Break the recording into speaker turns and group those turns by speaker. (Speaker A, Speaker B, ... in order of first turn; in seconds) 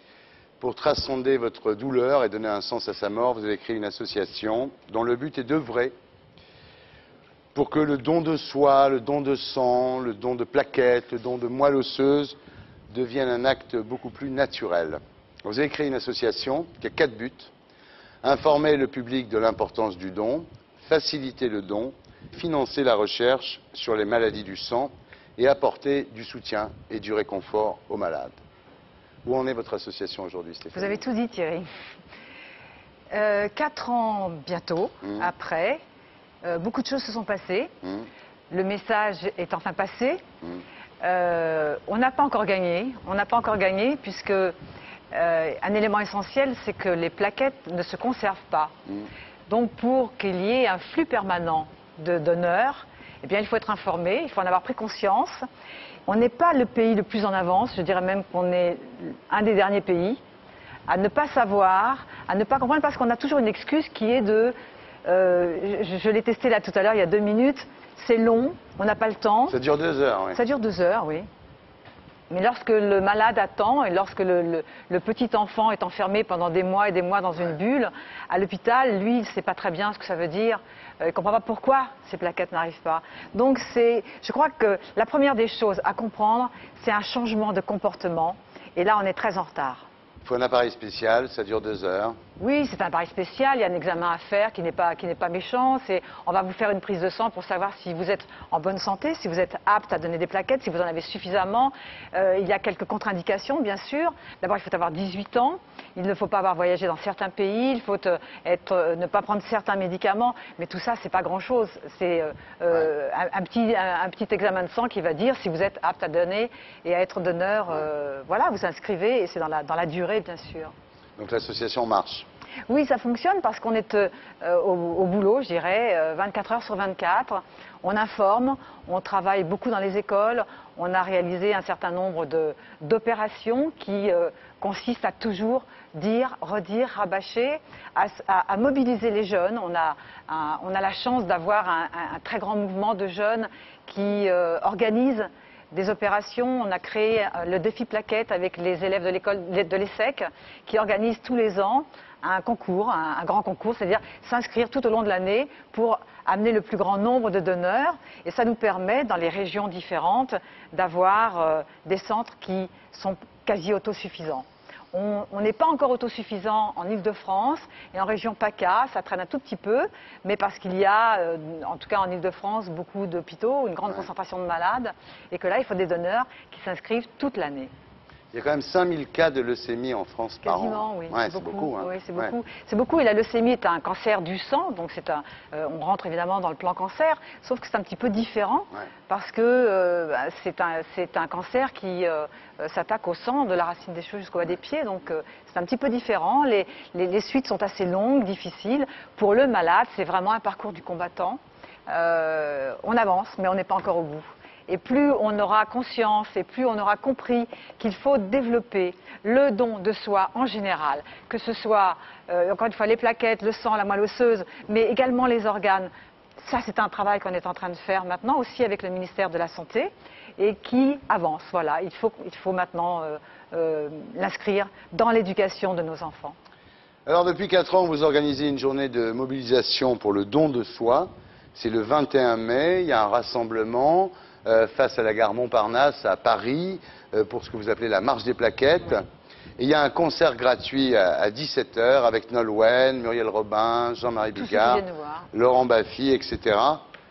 Speaker A: 0.6-5.9, 7.5-12.4, 12.9-17.5, 18.2-28.4, 29.2-31.0, 37.8-38.1, 69.5-70.4, 90.2-92.2, 121.2-122.3, 178.3-182.3, 227.1-239.0, 239.6-246.8
Speaker B: 30.7-31.7, 33.1-35.8, 36.4-37.7, 38.5-40.2, 41.0-44.5, 45.1-48.7, 49.5-55.4, 56.1-60.2, 60.9-64.5, 65.1-69.5, 70.3-71.3, 72.3-89.8, 92.4-120.7, 122.7-177.7, 180.4-226.4, 244.3-245.3